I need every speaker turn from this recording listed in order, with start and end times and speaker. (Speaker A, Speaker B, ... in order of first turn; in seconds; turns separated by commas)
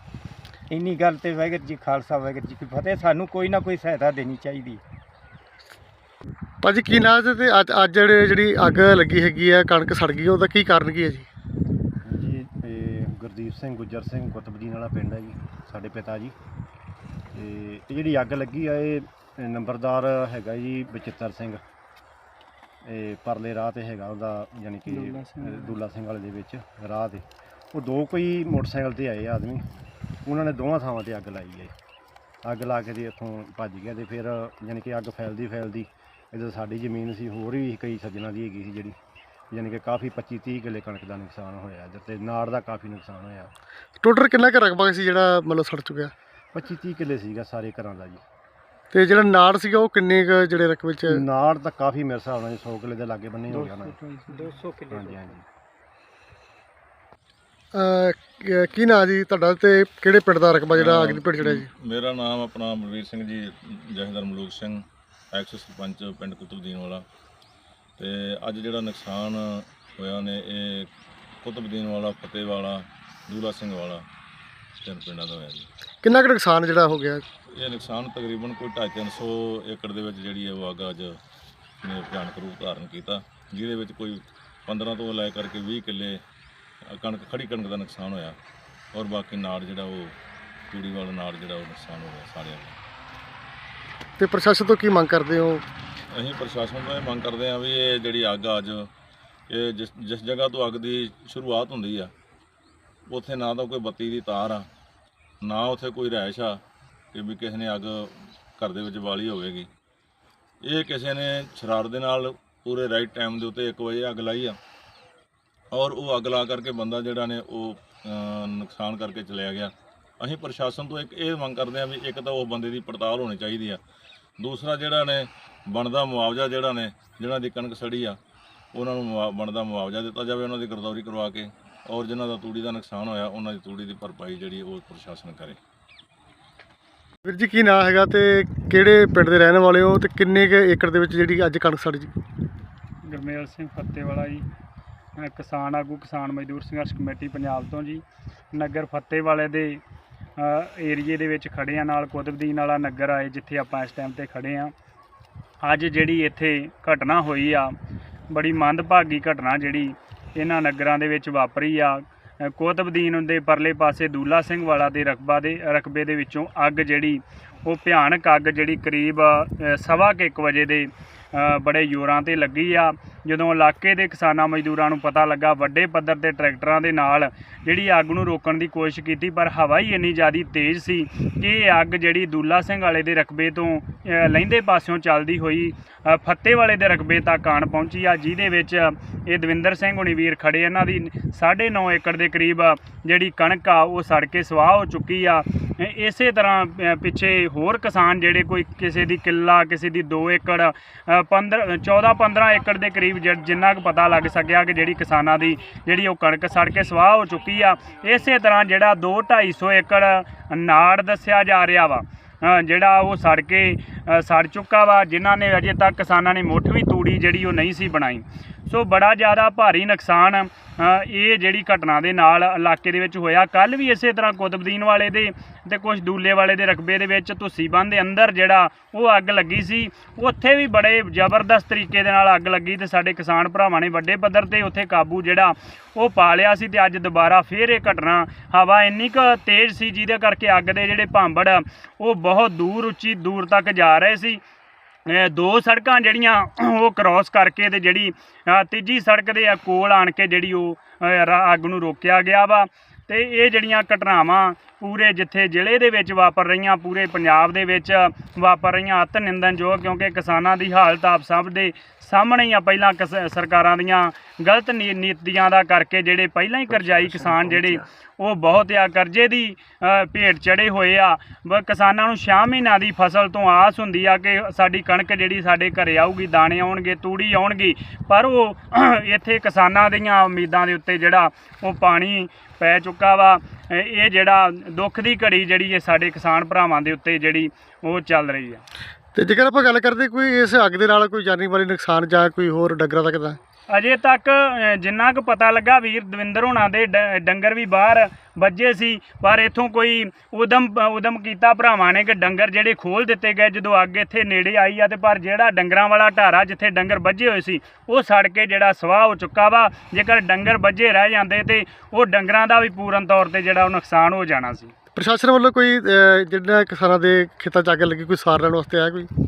Speaker A: 0.7-4.8, Speaker B: 6.6-11.3, Speaker C: 12.1-16.4, Speaker C: 17.3-21.6, Speaker C: 22.9-29.6, Speaker D: 24.9-25.8, Speaker C: 30.2-31.7, Speaker C: 32.5-39.0, Speaker C: 39.5-43.5, Speaker B: 44.0-46.1, Speaker C: 46.5-48.2, Speaker B: 48.9-51.2, Speaker C: 51.0-54.0, Speaker D: 53.5-54.6, Speaker A: 54.4-55.1, Speaker C: 54.9-55.5, Speaker B: 57.7-61.7, Speaker E: 60.7-67.0, Speaker E: 68.0-70.9, Speaker E: 71.4-74.0, Speaker E: 74.8-75.7, Speaker B: 76.0-77.2, Speaker E: 77.6-81.2, Speaker E: 81.8-86.2, Speaker E: 86.9-88.4, Speaker E: 88.9-90.2, Speaker E: 90.7-92.8, Speaker B: 94.2-95.6, Speaker E: 96.2-98.9, Speaker E: 99.5-102.1, Speaker E: 103.1-104.7, Speaker E: 105.4-106.6, Speaker E: 107.1-109.7, Speaker E: 110.6-114.6, Speaker E: 115.7-123.8, Speaker E: 124.4-128.2, Speaker E: 128.7-135.6, Speaker B: 137.2-142.1, Speaker D: 143.0-144.5, Speaker D: 145.2-149.8, Speaker D: 150.4-154.7, Speaker D: 155.6-157.8, Speaker D: 158.3-244.4, Speaker D: 245.1-288.6, Speaker B: 289.1-293.4, Speaker D: 293.7-314.7, Speaker B: 314.9-319.1